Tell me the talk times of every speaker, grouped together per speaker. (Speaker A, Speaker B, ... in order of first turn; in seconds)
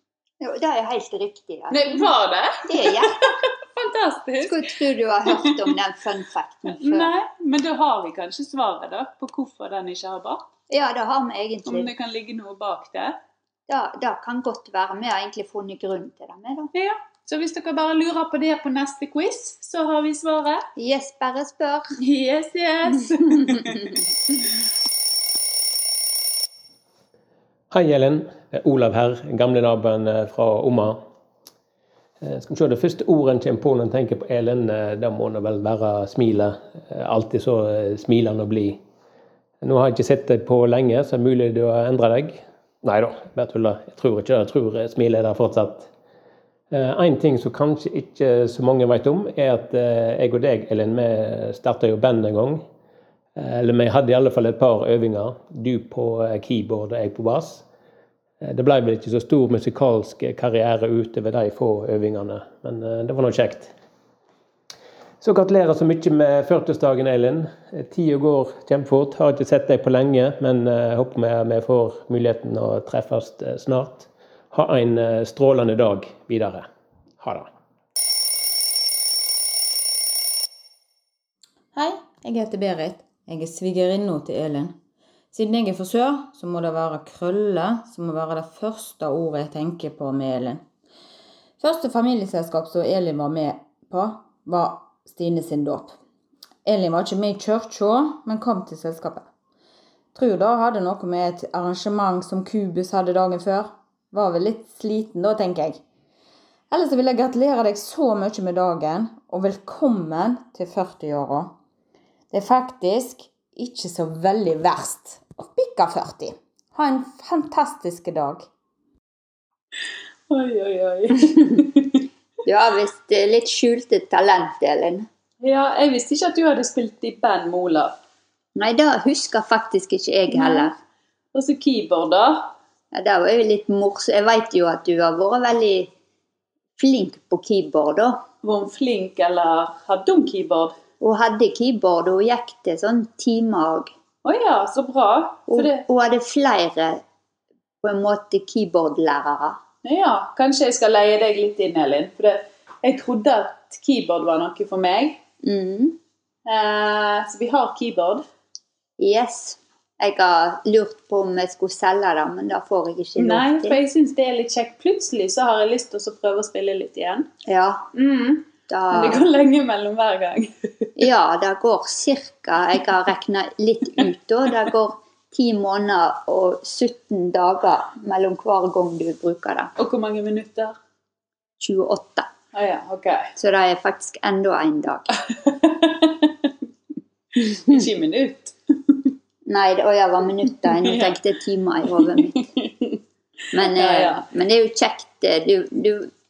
Speaker A: 0.4-2.1, 2.6-3.2, 4.4-7.1, 10.7-11.9, 13.7-16.7, 20.8-22.0, 23.4-24.0, 122.5-125.1, 128.6-130.7, 132.9-135.9, 136.8-138.2, 141.0-143.9, 145.5-147.0, 147.8-149.6, 155.4-156.0, 159.0-163.8, 167.4-167.9, 168.7-169.2, 171.0-179.7, 181.6-182.3, 183.4-185.1, 189.4-192.5, 193.5-196.1
Speaker B: 1.7-4.7, 5.3-5.6, 6.7-10.4, 11.7-13.2, 16.7-20.7, 22.0-24.5, 120.3-122.0, 125.4-128.0, 130.3-130.7, 131.3-132.5, 138.4-140.7, 144.2-145.9, 149.8-155.2, 156.4-158.2, 163.2-167.3, 167.9-170.9, 179.8-180.8, 182.5-183.3, 185.3-186.5, 187.4-189.1, 190.7-191.2, 192.0-193.0, 193.5-194.3
Speaker C: 27.7-31.0, 32.2-38.8, 39.6-45.9, 46.7-52.6, 53.4-57.6, 58.4-63.7, 65.2-76.7, 77.2-77.5
Speaker D: 81.7-84.8, 85.3-90.7, 91.6-96.0, 96.7-99.3, 100.2-105.8, 106.7-111.6, 112.3-118.5